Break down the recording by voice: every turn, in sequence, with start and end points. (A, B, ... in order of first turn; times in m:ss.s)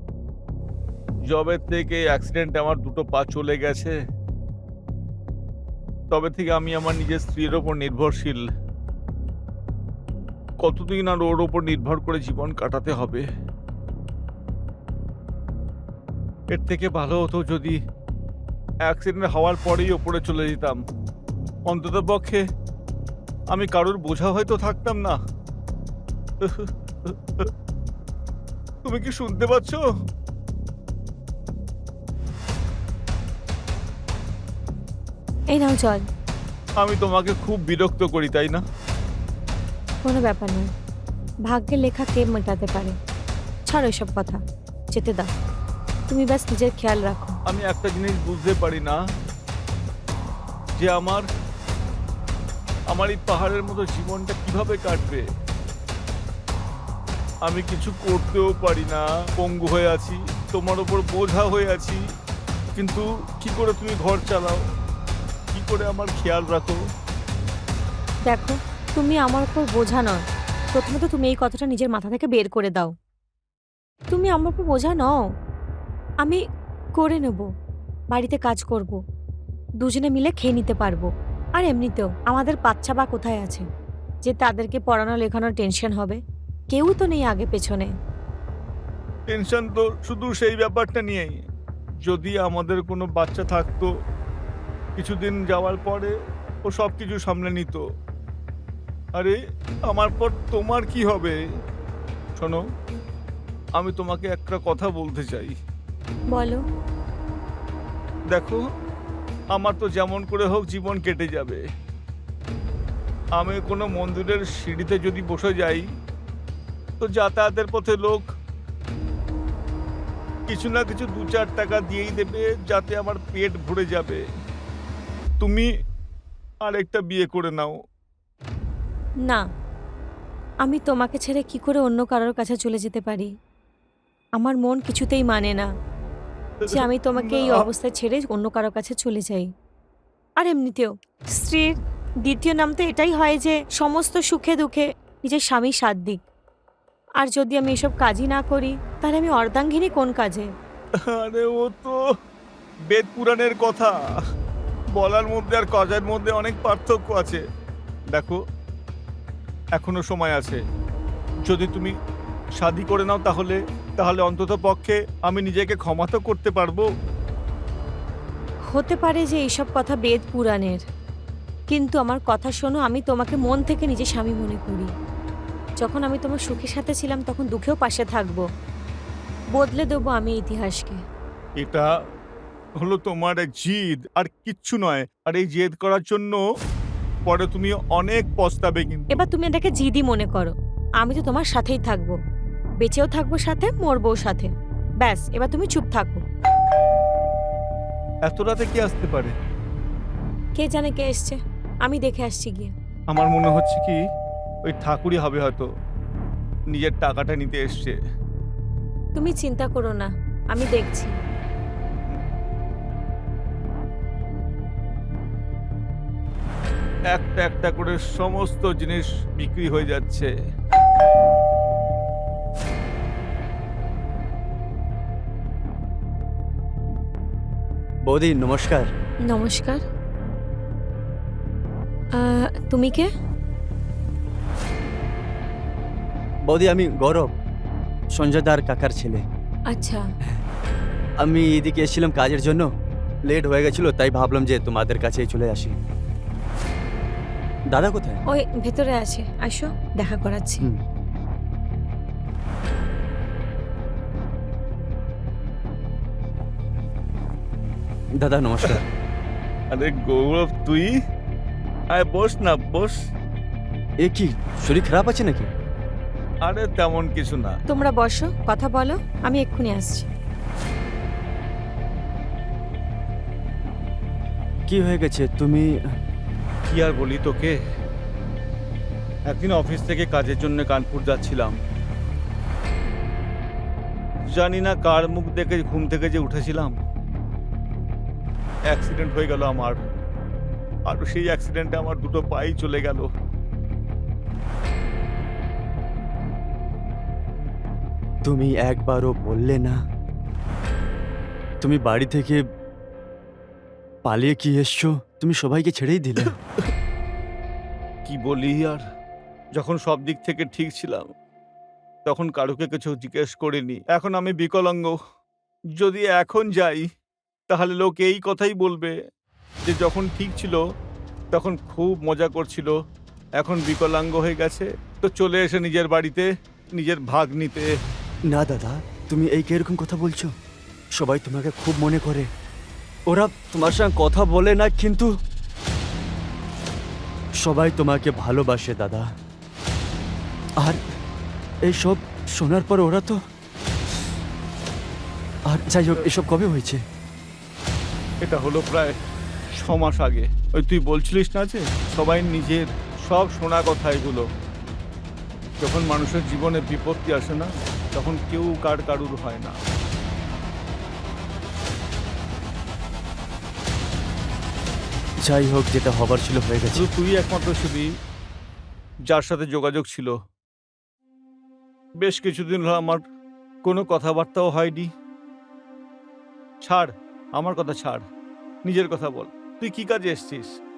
0:01.3-0:03.9 A
0:06.1-0:08.4 A
0:10.6-0:13.2 A
0:16.5-0:17.8 A
0:18.9-0:20.8 A
0:21.7-0:22.4 A
0:23.5-0:25.2 A
0:26.4-0:27.5 A
0:28.8-0:29.8 A
0:35.5-0:36.0 B
0:36.8-0:38.6 A
0:40.0-0:40.7 B
0:41.4-0:43.0 B
0:43.7-0:44.4 B
0:44.9-0:45.3 B
0:46.1-0:47.4 B
0:47.5-0:49.0 A
0:50.8-0:51.2 A
0:52.9-0:55.2 A
0:57.4-1:02.0 A
1:02.8-1:04.6 A
1:05.5-1:06.8 A
1:08.3-1:10.2 B
1:10.7-1:12.9 B
1:14.1-1:15.2 B
1:17.0-1:17.4 B
1:18.1-1:19.0 B
1:19.8-1:23.7 B
1:24.2-1:26.2 B
1:26.7-1:27.9 B
1:29.3-1:31.4 A
1:32.1-1:33.9 A
1:35.0-1:36.1 A
1:36.7-1:37.8 A
1:39.9-1:41.4 A
1:43.8-1:45.5 A
1:46.3-1:46.6 B
1:48.3-1:48.6 A
1:49.5-1:51.6 A
1:53.4-1:55.9 A
1:57.0-1:58.2 A
2:00.5-2:04.2 A
2:05.4-2:05.7 A
2:06.6-2:07.8 A
2:10.6-2:13.3 B
2:14.4-2:15.7 B
2:16.6-2:17.6 A
2:16.7-2:19.5 B
2:20.4-2:26.2 B
2:27.2-2:30.5 B
2:31.1-2:32.0 A
2:32.9-2:33.9 A
2:35.0-2:37.4 A
2:39.8-2:40.6 A
2:41.5-2:41.9 A
2:42.6-2:46.9 A
2:48.7-2:50.8 B
2:51.7-2:54.9 B
2:55.8-2:58.5 B
2:59.6-3:01.0 B
3:01.6-3:01.9 A
3:02.8-3:06.4 A
3:07.3-3:09.1 A
3:09.1-3:12.2 B
3:12.8-3:14.5 B
3:15.0-3:16.2 B
3:18.3-3:19.3 A
3:20.6-3:22.7 B
3:23.1-3:24.0 A
3:24.7-3:25.7 A
3:26.7-3:28.0 A
3:29.2-3:31.1 B
3:37.1-3:40.3 A
3:48.1-3:48.9 C
3:49.3-3:49.8 B
3:52.2-3:53.1 B
3:56.5-3:57.3 C
3:58.2-3:59.2 C
3:59.7-4:00.0 B
4:01.2-4:02.7 C
4:03.3-4:05.8 C
4:07.7-4:08.2 C
4:08.3-4:10.7 B
4:18.2-4:18.8 C
4:19.7-4:20.9 A
4:21.9-4:23.0 A
4:24.0-4:25.5 C
4:26.4-4:27.6 A
4:27.7-4:30.1 B
4:34.7-4:35.7 C
4:36.7-4:37.6 A
4:39.3-4:41.6 A
4:44.3-4:46.8 A
4:48.7-4:49.8 A
4:50.9-4:53.1 A
4:58.2-4:59.8 C
5:01.6-5:02.4 C
5:04.0-5:06.4 C
5:08.1-5:08.8 A
5:09.6-5:11.1 A
5:12.1-5:14.9 A
5:15.8-5:16.9 A
5:17.5-5:18.9 A
5:19.6-5:20.6 A
5:21.3-5:22.7 A
5:23.4-5:27.7 A
5:28.3-5:30.3 C
5:31.0-5:32.3 C
5:33.1-5:35.1 C
5:37.4-5:39.1 C
5:41.7-5:43.2 C
5:45.5-5:46.8 C
5:48.2-5:49.0 A
5:49.6-5:54.3 A
5:55.6-5:59.6 A
6:05.2-6:06.9 C
6:06.8-6:07.9 A
6:09.1-6:10.1 A
6:12.0-6:13.0 A
6:13.6-6:14.9 A
6:16.6-6:18.0 A
6:18.7-6:20.5 A